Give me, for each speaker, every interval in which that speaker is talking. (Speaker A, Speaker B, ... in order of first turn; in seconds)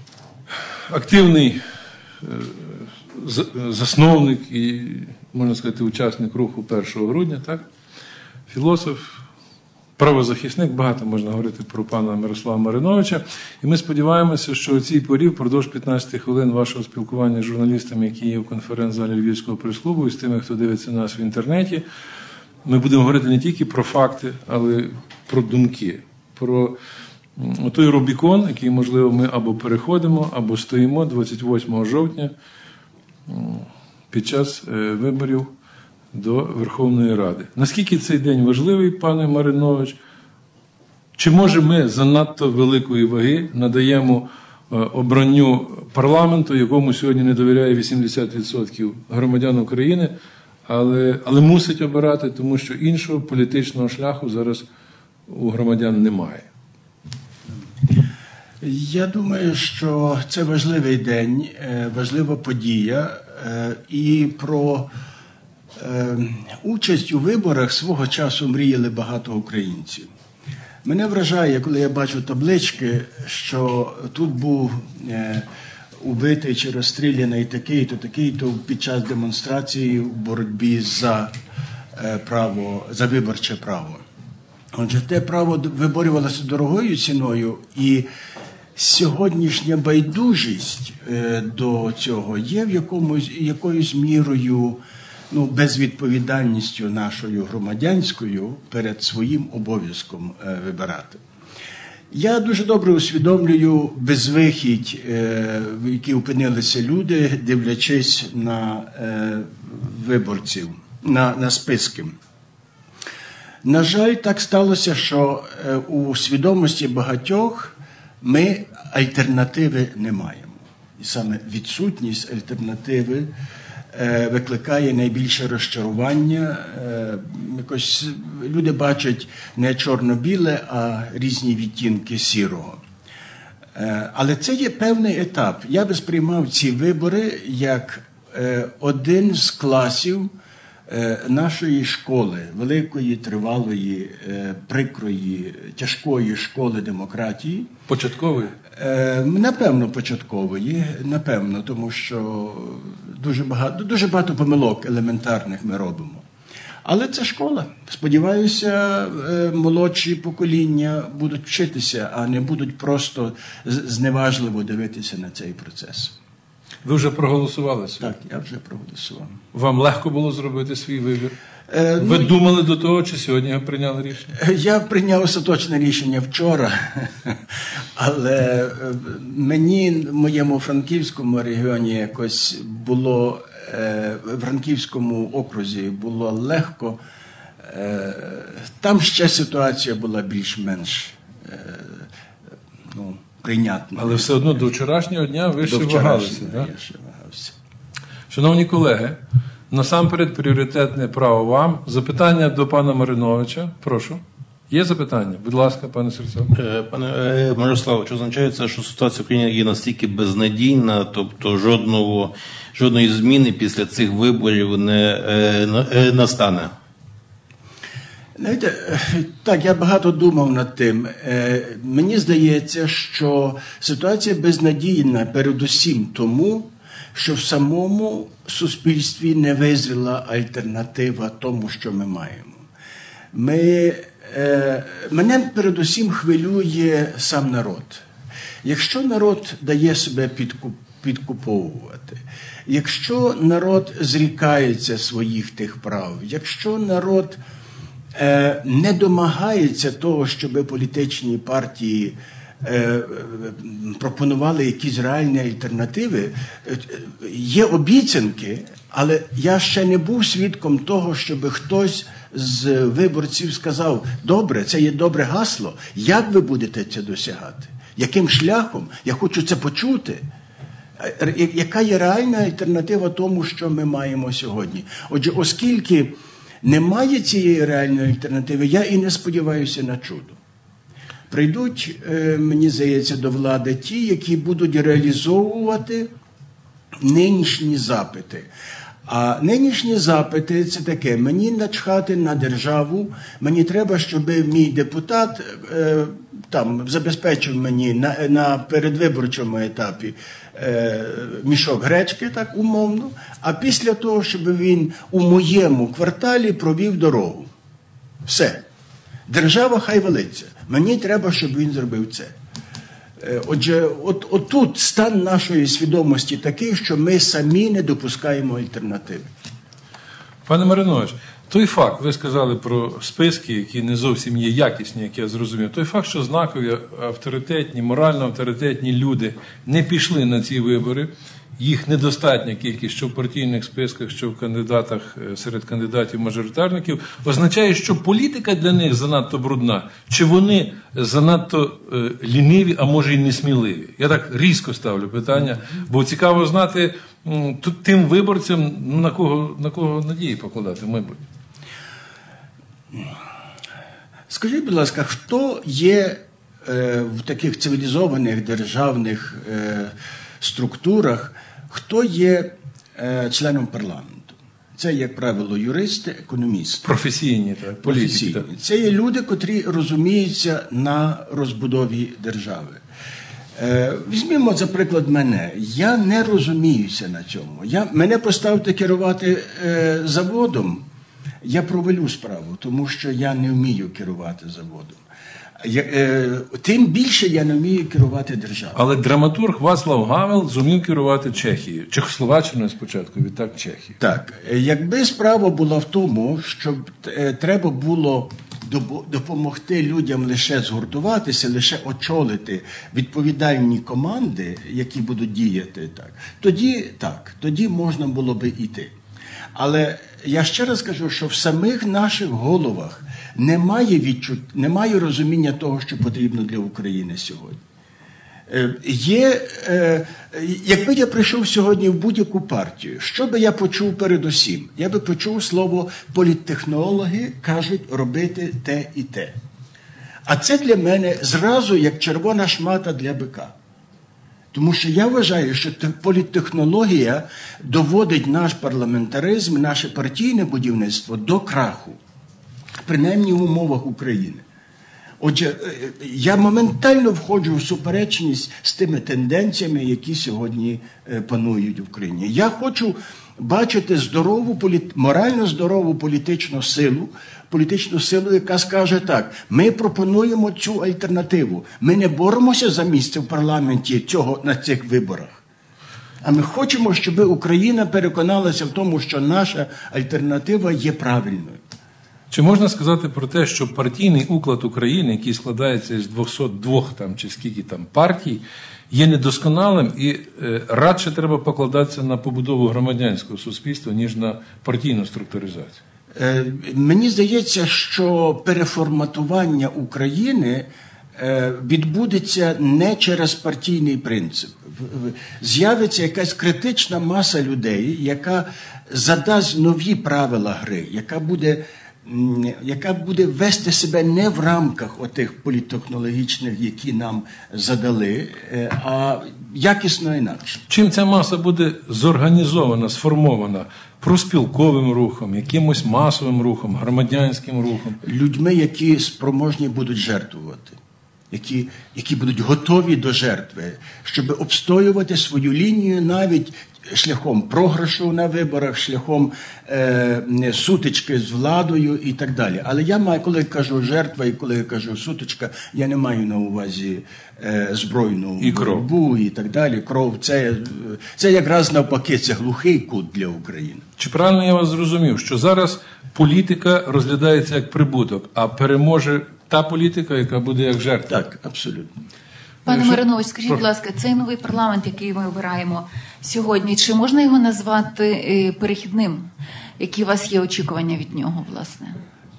Speaker A: 0.9-1.6, 2.2-7.6, 8.5-9.2, 10.0-21.8, 22.6-26.8, 27.4-32.3, 33.3-35.5, 36.1-40.0, 41.2-50.1, 50.7-54.6, 55.3-56.5, 147.9-148.6, 166.8-168.1, 169.5-171.3, 172.0-174.3, 194.0-196.7, 198.3-199.2, 199.7-206.5, 320.5-351.2, 366.8-368.4, 388.8-394.0, 472.3-485.8, 510.7-518.0, 538.4-538.9, 544.0-551.2, 552.7-553.6
Speaker B: 58.6-64.9, 65.8-70.1, 70.8-75.5, 76.0-81.3, 82.0-84.0, 84.7-88.1, 88.8-94.8, 95.3-101.2, 102.1-112.2, 113.6-123.3, 123.9-132.8, 133.8-140.3, 140.9-147.7, 148.7-156.2, 156.8-166.1, 168.0-169.3, 171.7-172.4, 174.3-177.4, 178.0-187.0, 187.6-192.1, 192.9-194.6, 195.6-197.6, 218.4-232.6, 233.3-238.0, 238.6-247.4, 248.1-270.2, 271.0-280.4, 281.3-286.1, 287.0-288.5, 289.1-307.5, 308.2-308.6, 309.3-312.3, 313.2-319.3, 354.3-366.9, 367.8-372.8, 373.6-380.8, 381.4-385.0, 385.6-388.8, 394.0-408.9, 409.6-417.6, 418.5-429.4, 430.2-433.5, 434.5-442.0, 442.8-444.4, 445.2-465.4, 466.2-471.6, 486.1-510.6, 518.0-520.8, 521.3-543.8, 551.1-551.9
Speaker C: 206.6-216.7
Speaker D: 552.7-559.2, 559.8-562.0